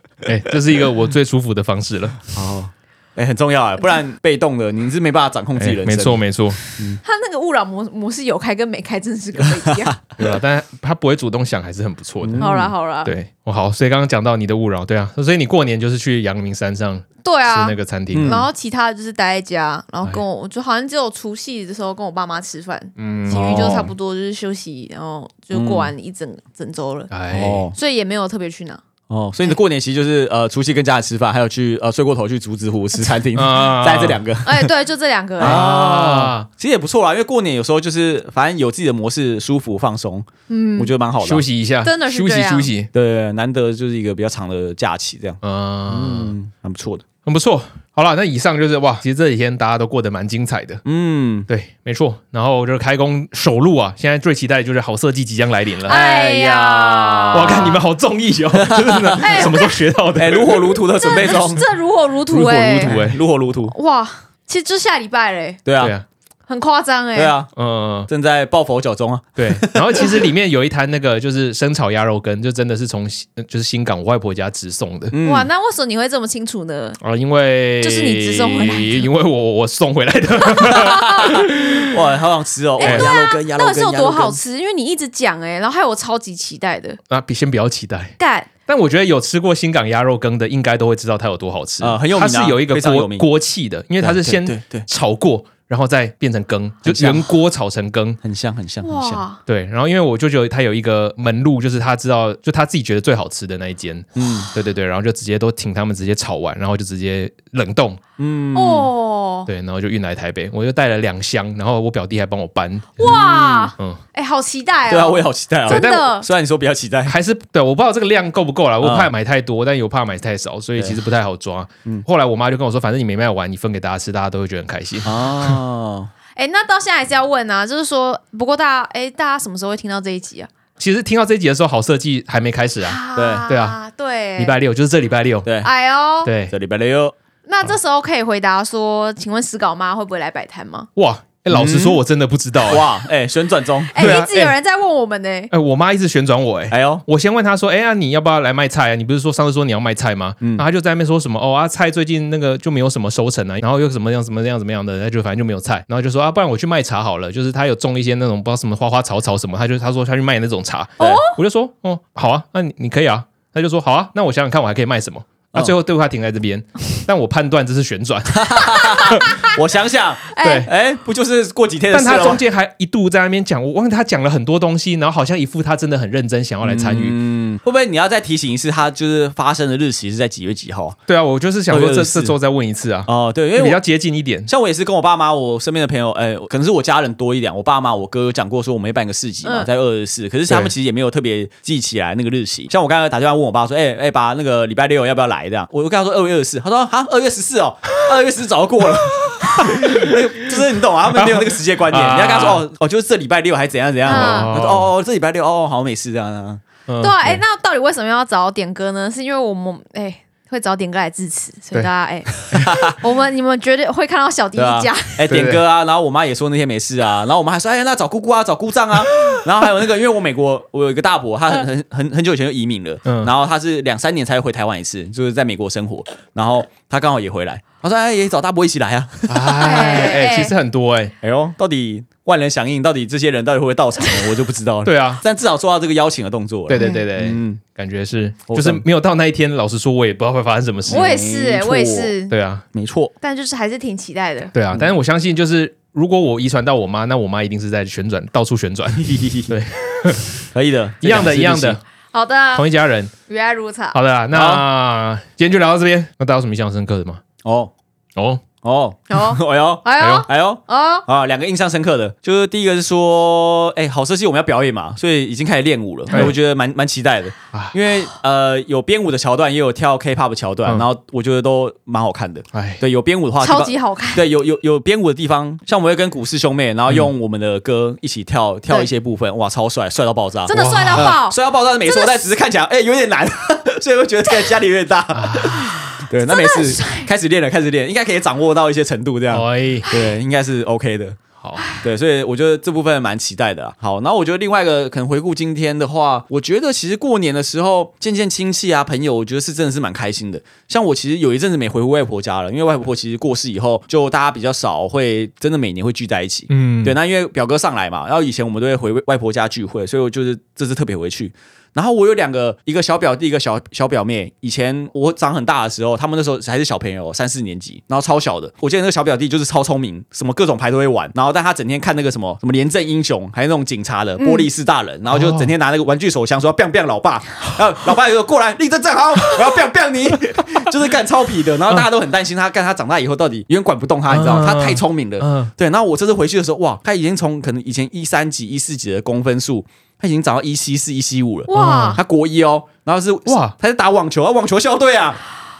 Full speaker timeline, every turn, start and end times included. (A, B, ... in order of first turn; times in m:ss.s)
0:00.2-0:02.2 A
0:02.3-0:07.0 B
0:05.6-0:06.6 A
0:07.0-0:10.0 C
0:10.2-0:12.5 A
0:12.2-0:12.7 B
0:12.4-0:13.1 C
0:13.0-0:18.4 A
0:17.2-0:27.1 C
0:18.1-0:18.5 B
0:23.0-0:23.9 A
0:23.4-0:23.7 B
0:25.5-0:25.9 B
0:27.1-0:27.6 A
0:27.3-0:27.7 B
0:27.7-0:28.8 C
0:29.1-0:34.6 B
0:33.3-0:34.2 A
0:34.4-0:35.7 C
0:35.4-0:36.5 A
0:35.4-0:41.4 B
0:40.5-0:40.9 C
0:41.2-0:42.9 A
0:41.8-0:42.7 C
0:42.9-0:47.0 B
0:45.4-0:46.3 A
0:47.2-0:50.8 A
0:50.8-0:51.5 B
0:51.5-0:56.0 A
0:55.8-0:57.8 B
0:55.9-0:57.7 C
0:57.3-1:00.8 A
0:58.5-0:59.4 B
0:59.2-0:59.8 C
1:00.2-1:01.7 B
1:01.0-1:03.0 C
1:02.3-1:03.7 B
1:02.8-1:03.2 A
1:03.7-1:05.6 C
1:05.6-1:05.9 B
1:05.8-1:06.0 A
1:06.5-1:07.3 C
1:07.1-1:07.5 B
1:07.5-1:08.1 A
1:08.1-1:10.2 B
1:09.4-1:15.1 A
1:15.1-1:15.5 B
1:15.2-1:17.0 C
1:17.0-1:22.0 A
1:17.8-1:19.0 C
1:20.5-1:21.2 C
1:20.7-1:24.4 B
1:22.8-1:27.0 C
1:22.8-1:23.1 A
1:27.1-1:28.1 A
1:28.2-1:28.5 C
1:28.7-1:38.2 A
1:31.8-1:33.3 B
1:34.0-1:34.9 B
1:36.8-1:37.2 B
1:38.2-1:39.2 B
1:38.8-1:39.4 C
1:39.4-1:48.0 A
1:44.2-1:44.5 B
1:48.2-1:48.9 B
1:48.5-1:49.5 C
1:49.5-1:53.2 A
1:53.0-1:56.3 C
1:53.0-1:53.7 B
1:54.9-1:57.2 B
1:55.7-1:56.0 A
1:57.1-2:05.6 A
1:58.8-1:59.1 B
2:05.0-2:06.1 B
2:06.4-2:10.5 C
2:10.8-2:13.8 A
2:12.8-2:14.5 C
2:13.2-2:13.4 B
2:14.4-2:15.5 A
2:15.4-2:15.7 B
2:15.6-2:16.3 C
2:16.2-2:16.5 A
2:16.5-2:17.1 B
2:17.4-2:20.9 C
2:21.0-2:22.9 A
2:21.5-2:22.0 B
2:22.6-2:24.3 B
2:23.9-2:25.5 C
2:24.0-2:24.5 A
2:25.5-2:49.5 A
2:26.7-2:27.0 B
2:41.0-2:41.4 C
2:48.3-2:52.4 B
2:50.3-2:50.7 C
2:51.9-2:57.2 A
2:56.6-3:01.0 B
3:01.1-3:04.5 A
3:01.7-3:02.4 B
3:03.0-3:03.8 B
3:04.5-3:26.6 B
3:19.6-3:22.6 A
3:24.0-3:24.9 A
3:24.0-3:24.5 C
3:26.9-3:27.4 A
3:27.0-3:35.3 C
3:32.5-3:33.0 B
3:34.5-3:50.2 B
3:35.3-3:35.6 A
3:43.0-3:43.3 A
3:49.3-3:51.1 A
3:49.4-3:50.5 C
3:51.2-3:57.6 B
3:54.1-3:54.3 C
3:54.8-3:55.2 A
3:56.7-4:01.1 A
3:56.7-3:57.1 C
3:58.5-3:58.8 B
4:00.9-4:02.1 B
4:00.9-4:02.3 C
4:02.3-4:02.6 A
4:02.7-4:03.1 B
4:03.2-4:04.5 C
4:04.5-4:10.4 A
4:09.0-4:09.5 B
4:10.5-4:11.8 B
4:11.0-4:11.8 A
4:12.1-4:12.7 C
4:12.5-4:13.1 A
4:13.3-4:14.0 C
4:13.9-4:17.2 A
4:14.3-4:14.6 B
4:17.4-4:17.7 B
4:18.2-4:18.4 A
4:18.6-4:51.2 B
4:19.1-4:21.0 C
4:20.0-4:20.3 A
4:32.5-4:32.8 A
4:33.4-4:34.2 C
4:40.5-4:41.4 C
4:40.5-4:41.2 A
4:41.9-4:42.1 C
4:45.1-4:45.7 A
4:46.2-4:47.1 C
4:49.3-4:49.9 A
4:49.8-4:50.2 C
4:51.6-4:51.8 C
4:51.8-5:45.2 B
5:06.5-5:07.0 A
5:24.2-5:24.5 C
5:25.1-5:25.5 A
5:34.1-5:35.5 A
5:41.5-5:42.0 C
5:41.5-5:42.0 A
5:43.3-5:43.5 A